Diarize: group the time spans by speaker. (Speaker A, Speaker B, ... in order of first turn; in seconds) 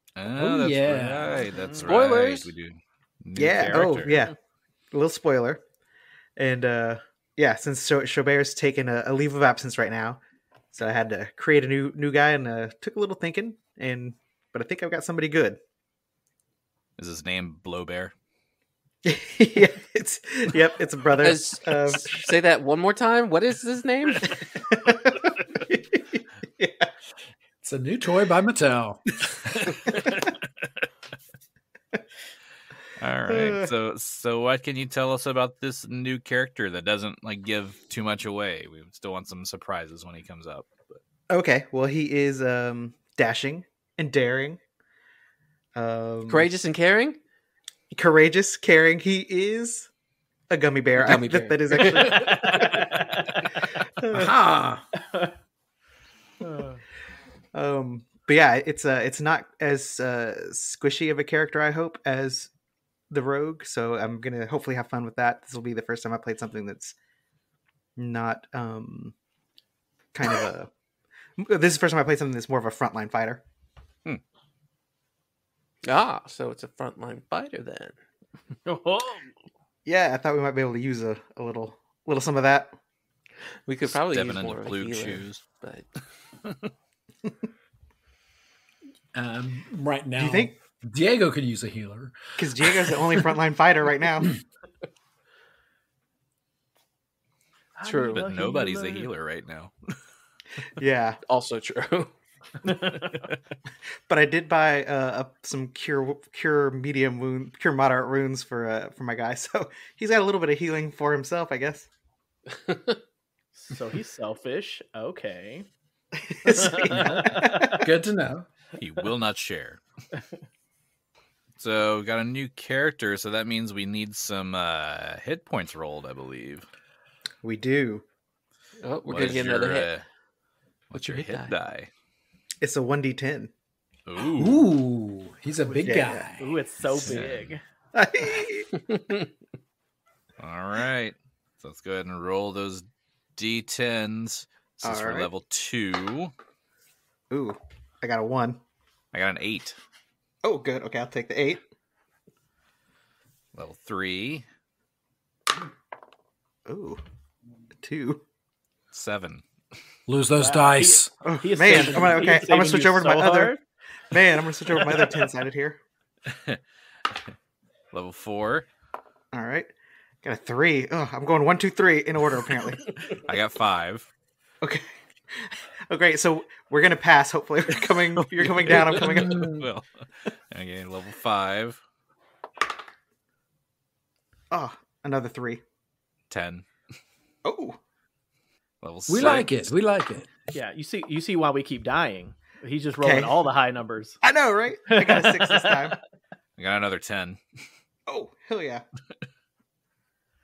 Speaker A: 0.2-4.2, 17.0-18.1, 33.0-41.0, 83.9-85.4, 98.1-100.0, 118.8-119.8, 121.6-126.7, 129.1-130.0, 130.9-131.9, 134.1-134.6, 136.9-137.5, 140.4-142.8, 143.4-146.3, 149.1-149.8, 153.6-154.5, 158.9-159.4, 166.3-166.6, 167.9-168.7, 173.1-174.1, 178.3-181.8, 186.3-186.7, 188.8-189.7, 196.6-197.4
Speaker B: 0.4-1.5, 27.6-29.8, 54.1-54.9, 89.1-93.3, 117.7-118.5, 134.2-136.6, 160.1-161.1, 178.7-179.7, 189.1-190.3
Speaker C: 1.5-1.9, 52.0-53.4, 55.0-55.3, 56.4-56.8, 78.7-79.3, 97.8-99.1, 102.7-103.1, 113.5-115.7, 116.5-117.8, 135.6-137.6, 160.4-163.6, 190.5-194.2, 194.9-195.8
Speaker D: 1.9-2.5, 21.2-24.4, 46.3-47.2, 51.0-52.8, 75.8-78.0, 83.7-85.9, 97.8-98.3, 101.2-102.1, 112.5-113.0, 128.8-130.0, 130.9-131.5, 138.9-139.3
Speaker E: 3.4-4.3, 4.9-5.6, 6.4-10.2, 10.7-15.6, 19.0-22.3, 24.7-26.9, 33.3-33.7, 41.3-44.6, 45.8-46.5, 47.9-49.9, 50.5-52.9, 54.0-54.3, 57.5-62.5, 63.1-67.0, 68.0-69.2, 70.1-70.7, 71.4-73.4, 79.9-82.7, 90.2-90.5, 92.4-94.3, 100.8-101.2, 104.1-111.9, 116.3-117.7, 127.4-128.0, 132.6-133.5, 135.9-136.3, 137.9-138.7, 144.8-145.3, 147.3-148.6, 150.4-151.6, 156.7-157.0, 157.8-158.2, 161.2-163.6, 164.1-165.8, 169.3-169.7, 170.2-173.0, 174.6-179.5, 184.5-185.6, 187.4-187.8, 193.0-193.4, 194.2-196.0, 198.1-198.9